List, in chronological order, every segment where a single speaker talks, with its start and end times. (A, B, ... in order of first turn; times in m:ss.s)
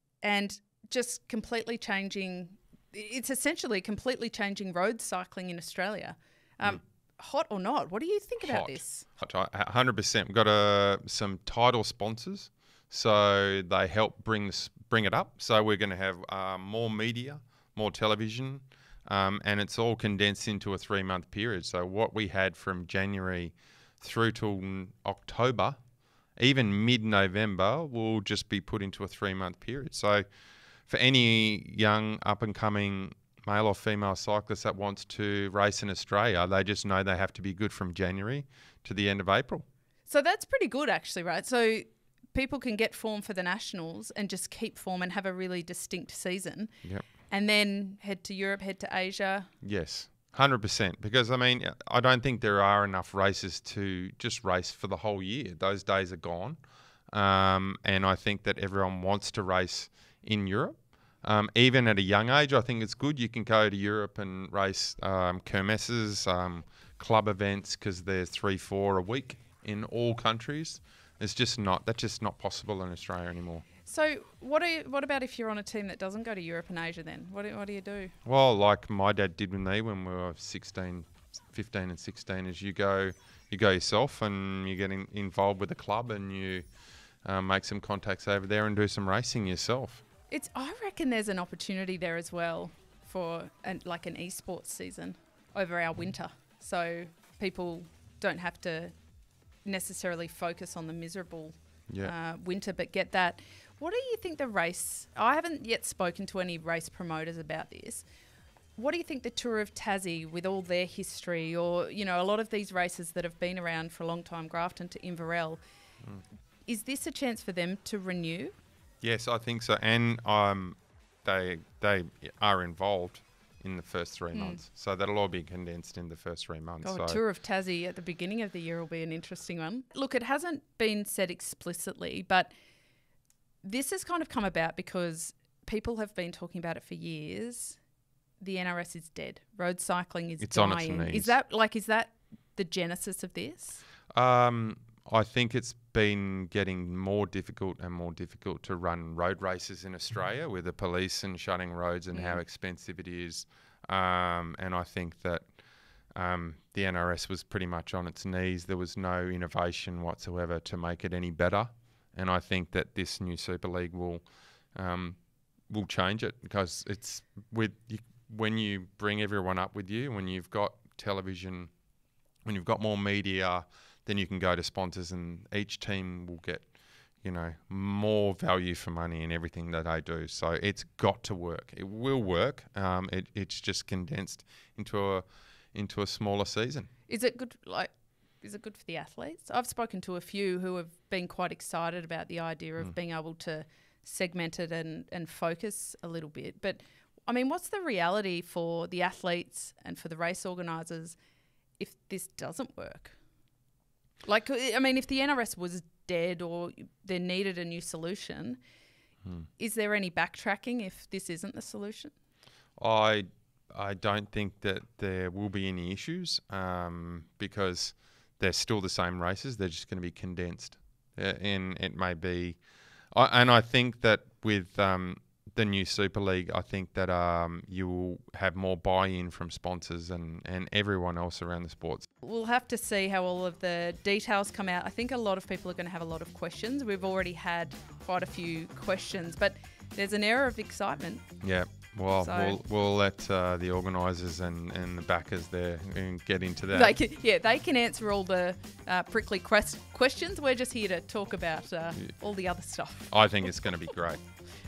0:00.2-0:09.1 A
0:08.4-0:25.8 B
0:26.4-0:30.2 B
0:30.9-0:39.6 B
0:40.1-0:46.8 A
0:47.3-0:49.5 A
0:49.6-0:56.6 B
0:57.1-1:13.6 B
1:13.8-1:18.1 A
1:18.2-1:26.6 B
1:27.2-1:30.0 B
1:30.3-1:38.9 A
1:39.6-1:48.0 A
1:41.9-1:42.1 B
1:48.8-1:55.6 A
1:56.7-1:58.6 A
1:59.0-2:07.2 B
2:04.3-2:04.6 A
2:06.8-2:12.5 A
2:13.6-2:17.8 A
2:18.4-2:23.8 A
2:20.4-2:21.3 B
2:24.1-2:35.4 B
2:32.1-2:32.4 A
2:36.2-2:45.2 B
2:45.7-2:51.7 B
2:52.4-2:56.7 B
2:57.2-3:06.9 B
3:07.1-3:21.2 A
3:21.8-3:23.2 A
3:24.2-3:28.6 A
3:29.6-3:32.1 A
3:32.8-3:52.1 B
3:52.2-4:01.3 A
4:01.4-4:06.9 B
4:02.2-4:02.6 A
4:06.7-4:13.1 A
4:13.1-4:14.2 B